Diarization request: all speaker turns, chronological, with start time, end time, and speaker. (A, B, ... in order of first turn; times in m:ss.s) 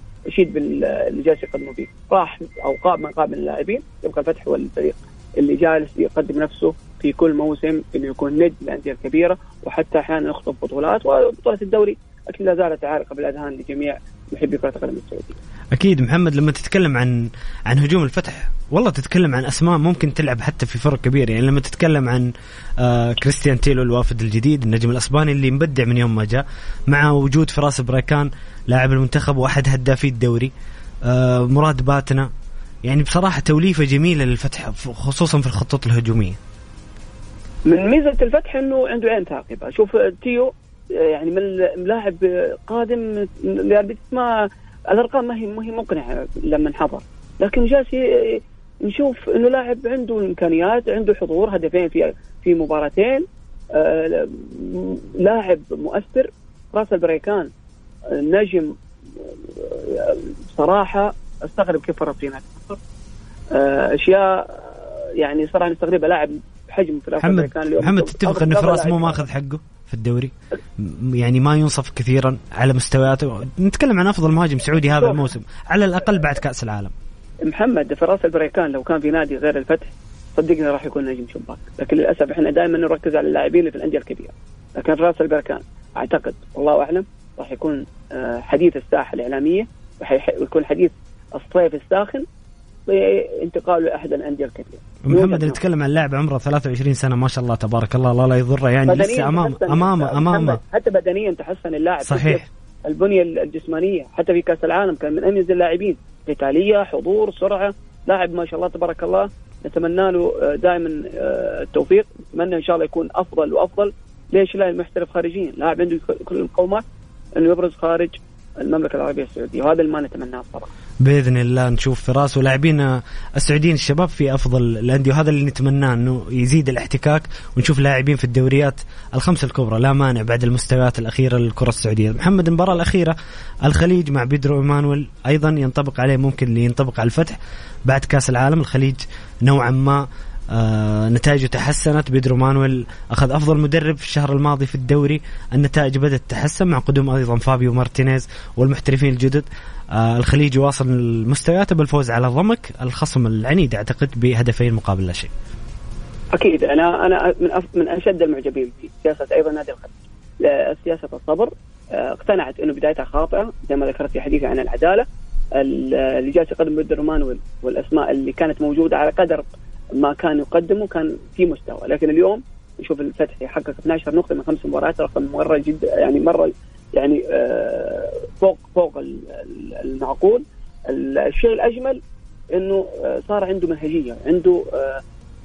0:00.3-0:15.4 A
0:15.7-0:30.5 B
0:31.1-0:32.3 B
0:32.8-0:36.4 B
0:37.7-0:57.5 A
0:58.2-1:02.8 A
1:03.5-1:09.2 A
1:07.2-1:16.9 B
1:17.4-1:32.2 A
1:32.9-1:35.6 A
1:35.0-1:40.6 B
1:38.9-1:56.8 A
1:42.0-1:42.4 B
1:57.4-2:00.7 A
2:01.0-2:35.3 B
2:36.4-2:49.4 A
2:50.0-3:02.0 A
3:02.5-3:05.0 A